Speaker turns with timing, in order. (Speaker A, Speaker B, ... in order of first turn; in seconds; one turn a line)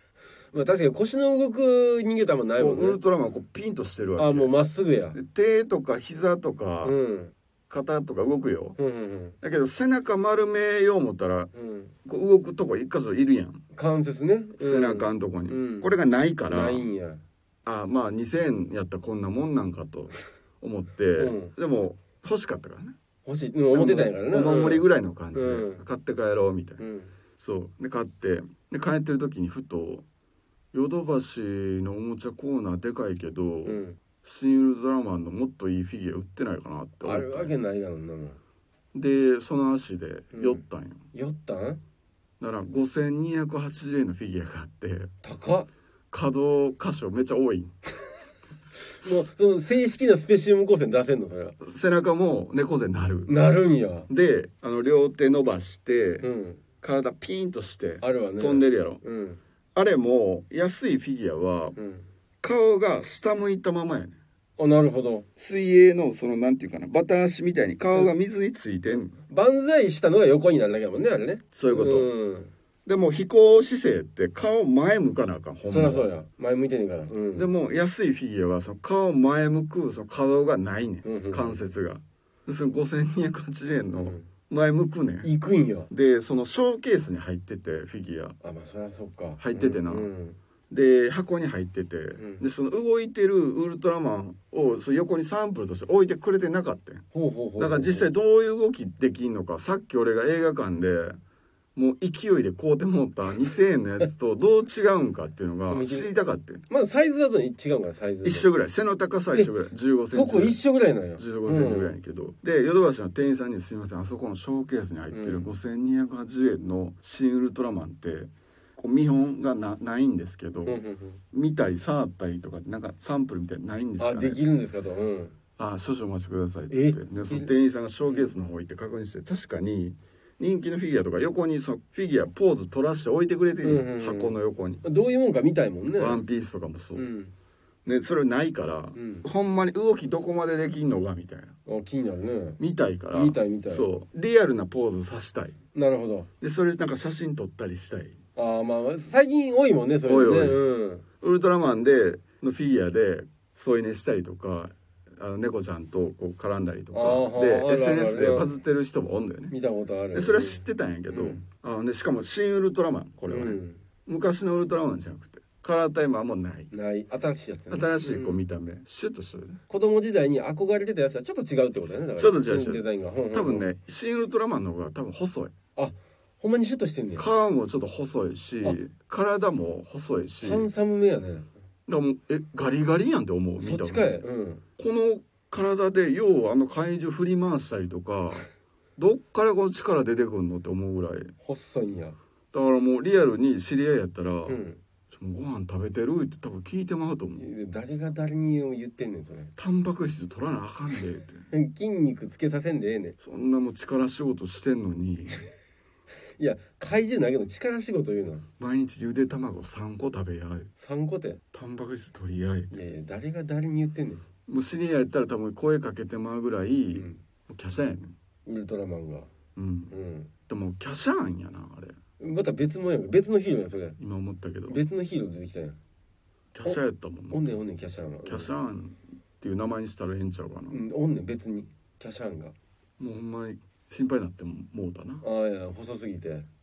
Speaker A: 0.5-3.0
Speaker B: 2.6-4.5
Speaker A: 4.2-5.2
Speaker B: 5.2-7.0
Speaker A: 6.8-7.3
Speaker B: 7.7-8.8
Speaker A: 8.8-9.4
Speaker B: 9.4-11.5
Speaker A: 11.5-11.9
Speaker B: 12.1-13.6
Speaker A: 13.7-16.0
Speaker B: 14.6-16.9
Speaker A: 16.5-17.2
Speaker B: 17.6-23.0
Speaker A: 21.2-21.5
Speaker A: 23.2-25.8
Speaker B: 23.7-26.8
Speaker A: 26.8-27.1
Speaker B: 27.4-30.1
Speaker B: 30.7-37.5
Speaker A: 33.6-34.0
Speaker A: 37.0-38.4
Speaker B: 38.9-41.1
Speaker A: 40.3-41.8
Speaker B: 42.4-45.1
Speaker A: 45.2-45.7
Speaker B: 46.1-47.8
Speaker A: 48.9-51.6
Speaker B: 51.6-53.4
Speaker A: 53.3-54.1
Speaker B: 54.1-56.3
Speaker A: 56.2-56.6
Speaker B: 56.8-59.0
Speaker A: 58.0-59.4
Speaker B: 59.8-61.8
Speaker A: 61.8-62.1
Speaker B: 62.4-64.2
Speaker A: 64.6-65.3
Speaker B: 65.4-69.1
Speaker A: 68.9-72.5
Speaker B: 71.5-72.1
Speaker B: 72.9-76.1
Speaker A: 75.7-77.5
Speaker B: 77.3-85.3
Speaker A: 81.0-81.6
Speaker A: 85.2-85.9
Speaker B: 85.9-88.4
Speaker A: 88.4-90.4
Speaker B: 89.4-90.1
Speaker B: 90.7-97.0
Speaker A: 92.2-92.4
Speaker A: 97.1-98.1
Speaker B: 97.6-101.2
Speaker B: 101.8-106.6
Speaker A: 105.7-106.1
Speaker A: 106.7-108.5
Speaker B: 108.2-110.6
Speaker A: 110.1-112.0
Speaker B: 111.2-124.4
Speaker A: 115.1-115.5
Speaker A: 120.7-121.2
Speaker A: 124.0-125.4
Speaker B: 125.6-134.8
Speaker A: 126.7-127.5
Speaker A: 133.6-136.2
Speaker B: 135.9-137.1
Speaker A: 136.9-137.3
Speaker B: 137.8-141.6
Speaker A: 138.9-139.3
Speaker A: 141.7-142.6
Speaker B: 142.6-145.6
Speaker A: 143.1-143.9
Speaker A: 145.8-146.3
Speaker B: 146.4-148.2
Speaker A: 148.4-151.1
Speaker B: 150.1-150.6
Speaker B: 151.2-159.5
Speaker A: 156.9-158.5
Speaker A: 159.5-161.4
Speaker B: 160.1-166.7
Speaker A: 163.3-163.8
Speaker A: 166.7-168.4
Speaker B: 167.7-169.6
Speaker A: 169.7-173.7
Speaker B: 172.2-175.5
Speaker A: 175.8-177.3
Speaker B: 177.2-180.7
Speaker A: 180.4-181.5
Speaker B: 181.9-184.2
Speaker A: 183.6-184.6
Speaker B: 184.8-191.3
Speaker A: 191.4-192.2
Speaker B: 192.5-197.4
Speaker A: 194.5-194.8
Speaker A: 197.3-199.5
Speaker B: 199.6-201.5
Speaker A: 201.5-203.2
Speaker B: 203.2-205.4
Speaker A: 206.4-208.4
Speaker B: 208.6-210.7
Speaker A: 210.8-211.4
Speaker B: 211.5-212.8
Speaker A: 212.7-214.2
Speaker B: 214.5-218.1
Speaker A: 216.9-217.2
Speaker A: 218.5-219.3
Speaker B: 219.6-219.9
Speaker A: 219.9-220.3
Speaker B: 220.5-222.0
Speaker A: 222.2-224.0
Speaker B: 224.0-224.8
Speaker A: 224.7-225.8
Speaker B: 226.5-227.5
Speaker A: 227.3-228.5
Speaker B: 228.2-230.8
Speaker A: 230.7-232.5
Speaker B: 233.0-235.2
Speaker A: 235.2-236.5